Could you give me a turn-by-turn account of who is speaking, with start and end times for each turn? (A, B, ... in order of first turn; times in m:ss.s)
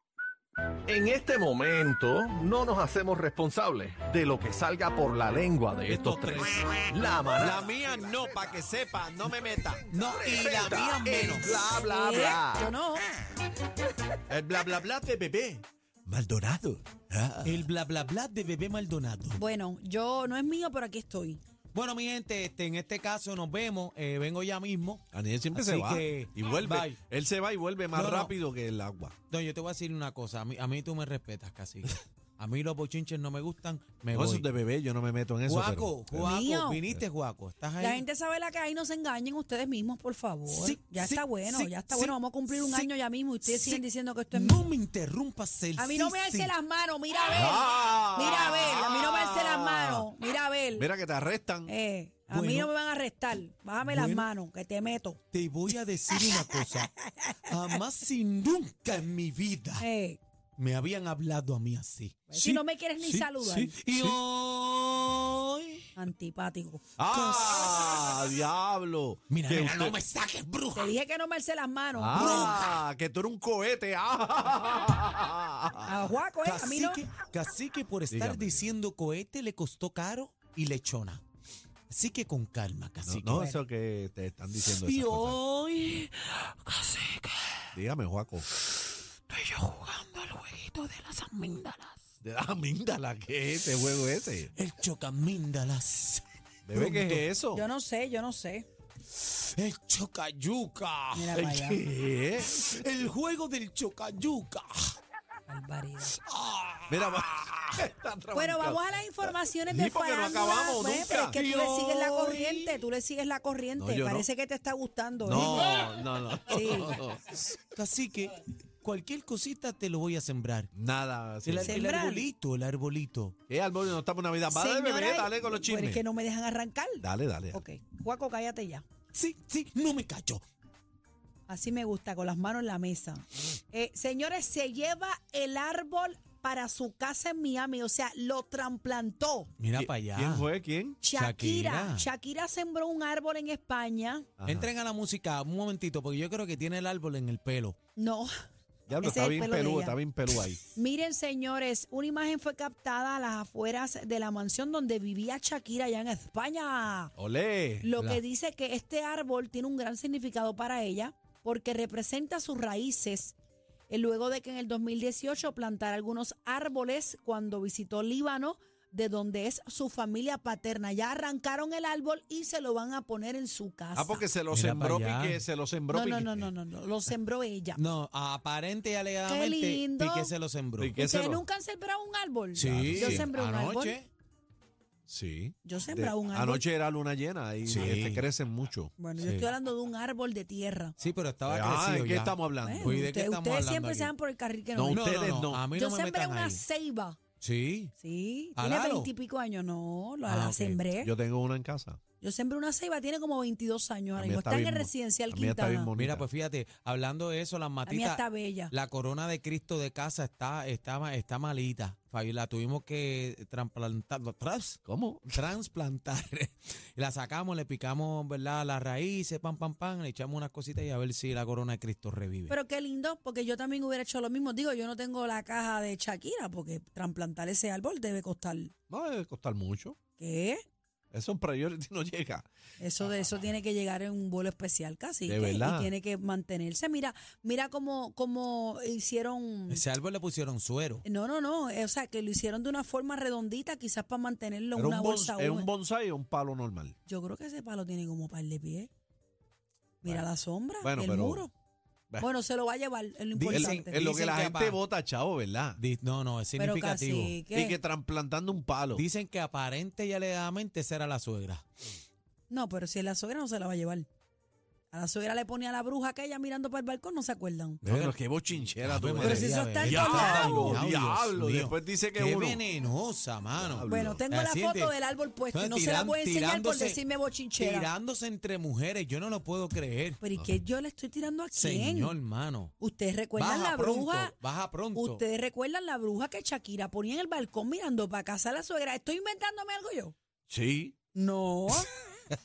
0:00.9-0:08.2 A
0:05.8-0:09.9 B
0:09.9-0:11.6 C
0:10.2-0:12.7 A
0:11.4-0:11.9 B
0:11.9-0:13.0 D
0:14.3-0:17.7 B
0:17.4-0:19.4 C
0:19.4-0:21.4 D
0:21.7-0:27.0 C
0:25.1-0:29.1 B
0:27.9-0:28.4 C
0:29.3-0:34.5 C
0:34.1-0:36.3 B
0:35.4-0:38.0 C
0:36.2-0:36.8 D
0:37.8-0:44.7 D
0:40.5-0:42.9 C
0:43.4-0:46.5 C
0:45.8-0:50.9 D
0:47.3-0:50.1 B
0:50.8-0:51.7 B
0:51.7-0:55.2 D
0:52.3-0:52.7 C
0:53.8-0:54.3 C
0:55.3-0:59.9 C
0:56.1-0:57.3 D
0:59.8-1:00.2 D
1:00.6-1:05.8 C
1:02.3-1:03.8 D
1:03.0-1:04.2 B
1:06.0-1:06.8 D
1:07.0-1:10.0 B
1:07.1-1:08.2 C
1:09.3-1:10.9 C
1:10.8-1:12.4 D
1:12.0-1:16.0 B
1:12.1-1:12.7 C
1:15.8-1:17.0 D
1:16.4-1:21.2 C
1:18.1-1:18.7 B
1:21.9-1:23.6 C
1:23.0-1:25.4 B
1:24.6-1:27.8 C
1:27.7-1:28.5 B
1:28.5-1:32.0 C
1:32.2-1:34.5 B
1:34.5-1:37.3 C
1:36.7-1:37.6 B
1:37.5-1:38.7 D
1:39.1-1:41.4 C
1:41.2-1:41.8 D
1:41.3-1:42.8 B
1:42.4-1:44.9 C
1:45.5-1:46.2 D
1:46.2-1:47.8 C
1:46.9-1:51.4 B
1:48.3-1:55.9 D
1:51.2-1:52.8 C
1:53.8-1:54.3 B
1:55.2-1:57.4 B
1:56.5-1:57.0 D
1:57.7-2:00.7 C
2:00.8-2:01.8 B
2:01.4-2:03.4 C
2:01.7-2:02.3 D
2:03.5-2:06.0 B
2:04.5-2:08.9 D
2:07.0-2:07.6 B
2:09.1-2:10.4 C
2:11.5-2:19.5 D
2:19.6-2:20.5 C
2:19.8-2:21.0 B
2:21.0-2:24.3 D
2:21.1-2:22.1 C
2:24.4-2:24.7 B
2:24.5-2:27.8 C
2:28.0-2:28.3 D
2:28.9-2:30.6 B
2:29.0-2:30.0 D
2:30.7-2:37.1 D
2:37.2-2:38.0 B
2:37.8-2:43.4 D
2:38.0-2:38.2 C
2:43.9-2:54.3 D
2:54.0-2:56.5 B
2:54.5-2:55.4 C
2:55.9-2:57.8 D
2:57.8-3:01.0 C
2:59.2-3:00.3 D
3:00.8-3:01.4 B
3:01.0-3:04.0 D
3:02.6-3:04.1 C
3:02.6-3:03.3 B
3:05.1-3:08.9 B
3:05.6-3:06.6 D
3:07.7-3:08.2 C
3:09.0-3:11.0 D
3:09.2-3:09.5 C
3:11.0-3:14.1 C
3:11.5-3:12.9 B
3:12.6-3:14.9 D
3:14.8-3:15.6 B
3:14.9-3:16.6 C
3:15.7-3:17.2 D
3:17.4-3:17.9 C
3:18.0-3:21.1 D
3:18.6-3:19.1 C
3:20.3-3:20.8 C
3:21.0-3:22.0 B
3:22.2-3:25.9 D
3:24.2-3:26.2 B
3:26.0-3:34.8 C
3:27.9-3:28.7 D
3:34.8-3:35.4 B
3:35.3-3:42.6 C
3:42.5-3:48.7 D
3:48.9-3:50.0 B
3:50.1-3:50.6 D
3:51.1-3:52.5 B
3:52.8-3:59.9 D
3:55.3-3:55.9 B
3:59.7-4:01.0 C
4:01.1-4:05.7 D
4:04.8-4:07.0 B
4:07.1-4:08.9 D
4:10.0-4:11.5 D
4:10.8-4:11.5 B
4:12.2-4:13.9 D
4:13.4-4:14.8 C
4:13.5-4:15.8 B
4:15.8-4:17.4 C
4:16.6-4:17.8 D
4:17.5-4:19.0 B
4:18.9-4:21.7 C
4:22.5-4:24.1 D
4:24.9-4:27.8 D
4:27.8-4:32.6 B
4:27.8-4:28.2 C
4:28.7-4:34.9 C
4:29.2-4:30.8 D
4:33.6-4:34.2 B
4:33.9-4:37.9 D
4:35.5-4:37.0 C
4:37.6-4:40.2 C
4:40.2-4:42.2 D
4:41.5-4:42.7 C
4:42.8-4:44.4 D
4:43.4-4:45.2 C
4:44.9-4:50.2 D
4:50.5-4:51.0 B
4:51.1-4:52.0 D